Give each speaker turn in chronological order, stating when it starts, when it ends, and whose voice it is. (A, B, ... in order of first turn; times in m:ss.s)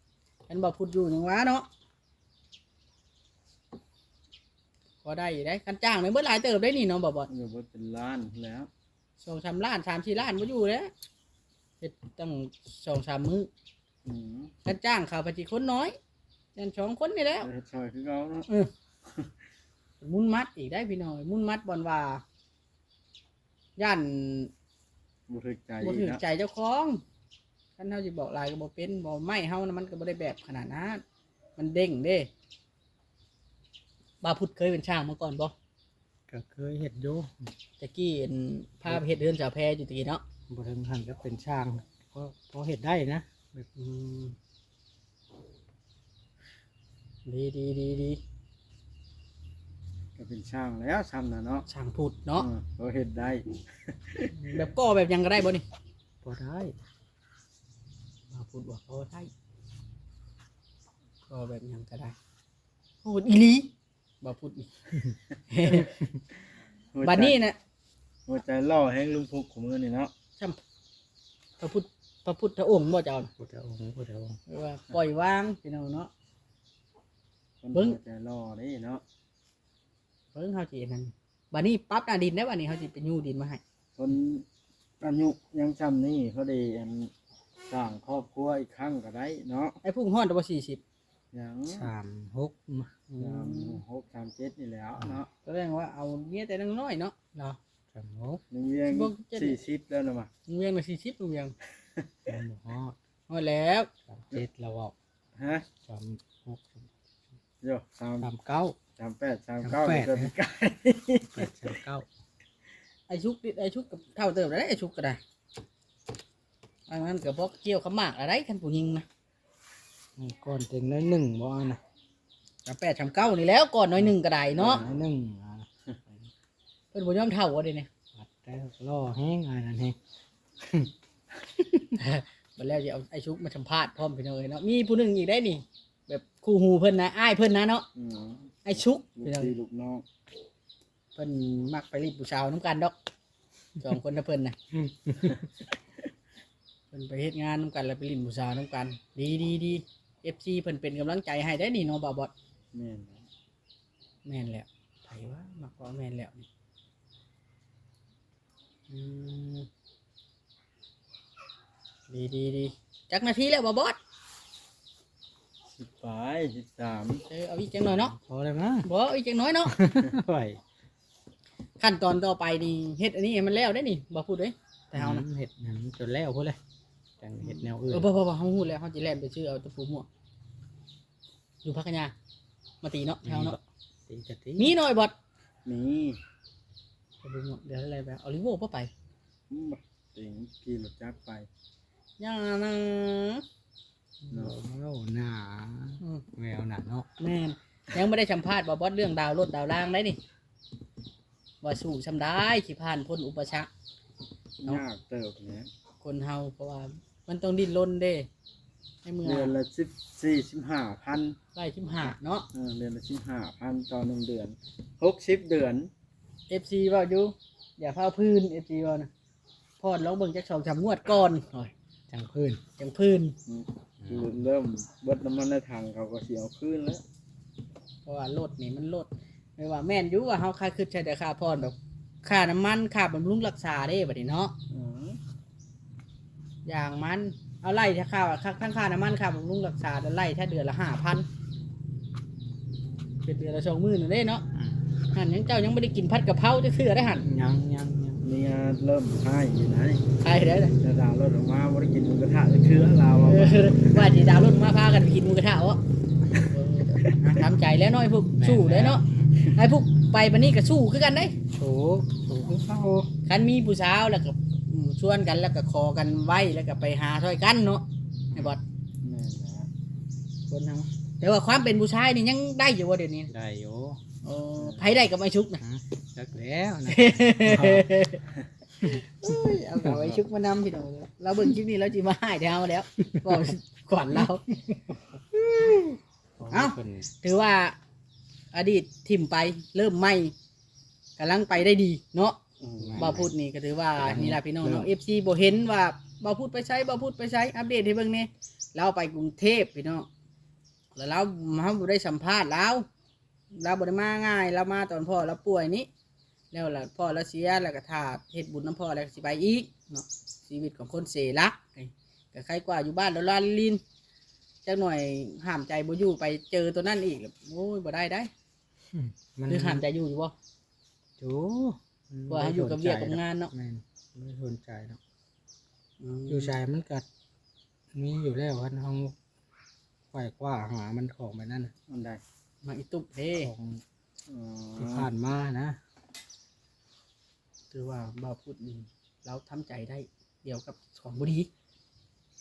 0:00.5-0:01.7 A
0:05.0-0:07.3 A
0:07.3-0:08.7 B
0:09.2-0:10.9 A
0:11.8-0:13.5 A
0:14.0-0:14.5 B
0:14.6-0:16.0 A
0:16.6-0:17.5 A
0:17.4-0:18.5 B
0:20.0-0:22.2 A
0:23.8-0:24.5 A
0:25.3-0:26.2 B
0:25.8-0:27.0 A
0:27.8-0:31.0 A
0:31.6-0:32.3 A
0:34.2-0:35.5 A
0:36.3-0:37.5 C
0:37.8-0:40.2 A
0:40.5-0:43.7 C
0:43.8-0:44.4 A
0:47.3-0:48.2 A
0:50.2-0:51.7 B
0:51.7-0:52.5 A
0:52.4-0:54.4 B
0:54.4-0:55.6 A
0:56.2-0:56.8 C
0:58.3-0:59.3 A
1:01.3-1:02.2 A
1:03.0-1:03.7 A
1:04.2-1:04.7 A
1:05.5-1:06.0 A
1:06.9-1:07.4 B
1:07.0-1:07.6 A
1:08.3-1:10.1 B
1:11.6-1:13.3 A
1:13.4-1:14.4 C
1:14.5-1:16.1 A
1:17.6-1:19.0 B
1:20.4-1:23.6 A
1:24.0-1:24.5 B
1:25.0-1:27.1 B
1:27.7-1:29.8 B
1:29.8-1:30.8 A
1:31.3-1:31.9 B
1:31.7-1:32.9 C
1:33.1-1:33.8 A
1:33.2-1:35.3 B
1:35.0-1:35.2 C
1:35.4-1:37.6 A
1:37.9-1:38.4 C
1:38.5-1:40.3 B
1:38.9-1:39.6 A
1:40.5-1:41.5 A
1:42.0-1:42.4 B
1:42.3-1:43.0 C
1:43.3-1:43.9 A
1:44.1-1:45.0 C
1:45.4-1:45.7 B
1:45.8-1:46.9 C
1:47.6-1:48.3 B
1:48.2-1:48.8 C
1:49.0-1:51.7 B
1:49.6-1:50.3 C
1:51.3-1:52.1 C
1:53.1-1:55.2 A
1:56.9-1:59.1 A
2:00.2-2:01.8 C
2:02.7-2:04.8 A
2:04.0-2:05.7 C
2:04.6-2:04.9 B
2:06.9-2:07.9 A
2:08.2-2:10.0 C
2:10.6-2:10.9 C
2:11.6-2:12.0 C
2:12.0-2:17.9 A
2:18.0-2:20.0 B
2:18.7-2:19.6 A
2:21.2-2:22.9 A
2:23.8-2:24.6 A
2:24.8-2:25.4 C
2:26.9-2:32.3 A
2:32.7-2:33.3 B
2:34.3-2:36.5 A
2:38.9-2:39.7 A
2:42.1-2:44.0 A
2:45.7-2:47.2 B
2:47.3-2:48.1 A
2:47.9-2:48.9 C
2:48.8-2:49.8 A
2:49.6-2:50.6 C
2:51.8-2:55.2 A
2:55.0-2:56.6 C
2:57.2-2:58.1 C
2:57.5-3:00.1 A
3:01.6-3:02.1 A
3:02.8-3:03.6 A
3:03.2-3:04.8 C
3:04.6-3:05.1 A
3:05.7-3:06.2 B
3:07.2-3:08.9 A
3:09.5-3:11.5 B
3:12.2-3:13.4 A
3:14.2-3:17.1 C
3:16.0-3:16.3 A
3:17.2-3:20.2 A
3:21.6-3:23.7 A
3:24.6-3:25.7 B
3:26.0-3:28.3 A
3:29.0-3:29.6 A
3:29.2-3:31.4 B
3:31.6-3:32.5 A
3:32.5-3:35.9 B
3:36.5-3:39.1 A
3:39.8-3:41.7 A
3:42.1-3:42.6 C
3:42.8-3:43.4 A
3:43.5-3:47.0 B
3:44.0-3:44.4 C
3:48.1-3:54.5 A
3:54.7-3:55.2 B
3:56.7-4:01.3 A
4:03.3-4:04.4 A
4:04.5-4:04.8 C
4:05.1-4:07.2 A
4:07.2-4:08.2 C
4:08.2-4:10.0 B
4:10.2-4:10.8 A
4:10.8-4:14.1 B
4:13.2-4:15.8 A
4:16.5-4:21.4 A
4:18.4-4:19.0 C
4:21.5-4:23.1 C
4:23.3-4:28.6 A
4:29.0-4:29.7 B
4:30.5-4:33.3 A
4:33.3-4:34.0 C
4:34.2-4:35.6 A
4:35.6-4:37.9 C
4:36.9-4:38.2 A
4:38.8-4:40.2 C
4:38.8-4:44.8 A
4:45.3-4:46.0 A
4:46.4-4:47.1 C
4:46.5-4:47.8 A
4:48.5-4:50.3 A
4:51.2-4:52.4 A
4:52.6-4:53.2 B
4:52.8-4:53.3 C
4:53.0-5:00.1 A
4:54.0-4:54.9 C
5:01.0-5:02.9 A
5:03.5-5:05.9 A
5:06.5-5:13.8 A
5:14.6-5:18.3 A
5:18.9-5:19.8 C
5:19.5-5:20.3 A
5:21.2-5:25.0 C
5:22.3-5:23.5 A
5:26.0-5:26.6 A
5:26.3-5:27.1 C
5:27.9-5:29.2 C
5:30.1-5:31.7 C
5:31.9-5:32.2 B
5:32.6-5:33.5 A
5:33.4-5:33.8 C
5:34.3-5:35.1 B
5:34.8-5:35.8 C
5:37.7-5:41.5 A